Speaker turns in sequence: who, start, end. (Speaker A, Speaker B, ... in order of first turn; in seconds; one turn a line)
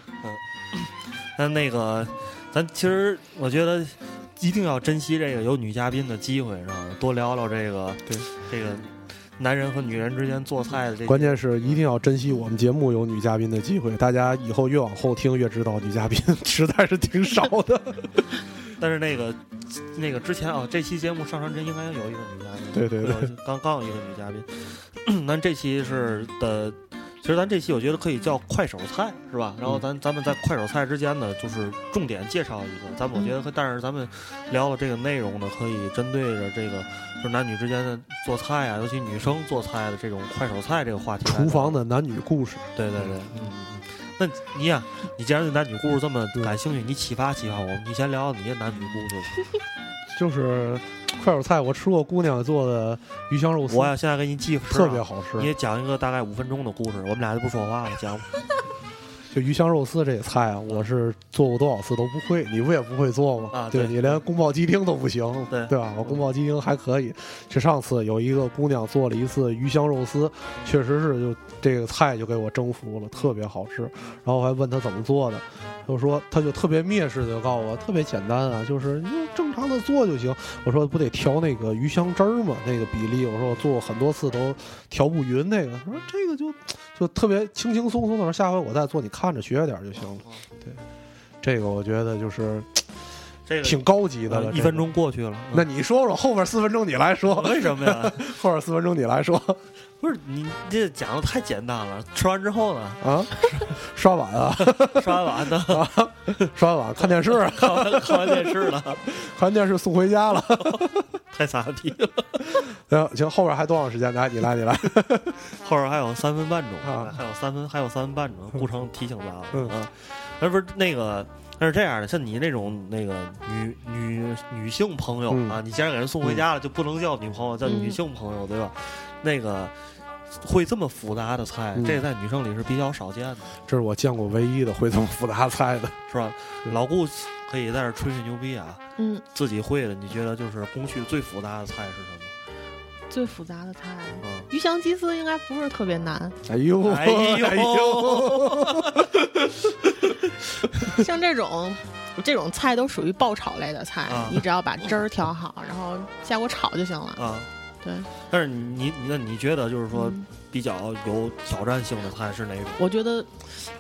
Speaker A: 0.2-11.8
Speaker B: 11.1-18.3
Speaker A: 18.8-41.8
Speaker B: 22.7-23.3
Speaker B: 41.2-43.1
Speaker A: 42.8-49.5
Speaker B: 50.1-53.9
Speaker A: 53.7-58.4
Speaker B: 54.7-55.5
Speaker B: 59.3-90.8
Speaker A: 63.5-64.2
Speaker A: 65.5-66.3
Speaker B: 91.4-92.9
Speaker A: 93.5-95.7
Speaker B: 93.6-94.9
Speaker B: 95.5-99.6
Speaker A: 97.2-98.3
Speaker A: 100.0-103.7
Speaker B: 103.0-111.1
Speaker A: 104.6-106.0
Speaker A: 107.0-109.0
Speaker A: 110.5-112.6
Speaker B: 112.4-115.4
Speaker A: 115.5-129.7
Speaker B: 116.8-117.2
Speaker B: 125.3-125.6
Speaker C: 127.7-128.0
Speaker A: 130.4-133.6
Speaker B: 131.8-132.0
Speaker B: 133.7-136.0
Speaker A: 136.1-142.3
Speaker C: 139.0-139.2
Speaker C: 143.1-146.4
Speaker A: 144.2-144.5
Speaker B: 146.4-150.2
Speaker A: 146.8-149.1
Speaker C: 150.9-157.2
Speaker A: 154.1-154.5
Speaker A: 157.2-157.5
Speaker C: 157.8-158.1
Speaker A: 158.2-162.8
Speaker C: 159.9-160.3
Speaker C: 162.8-163.6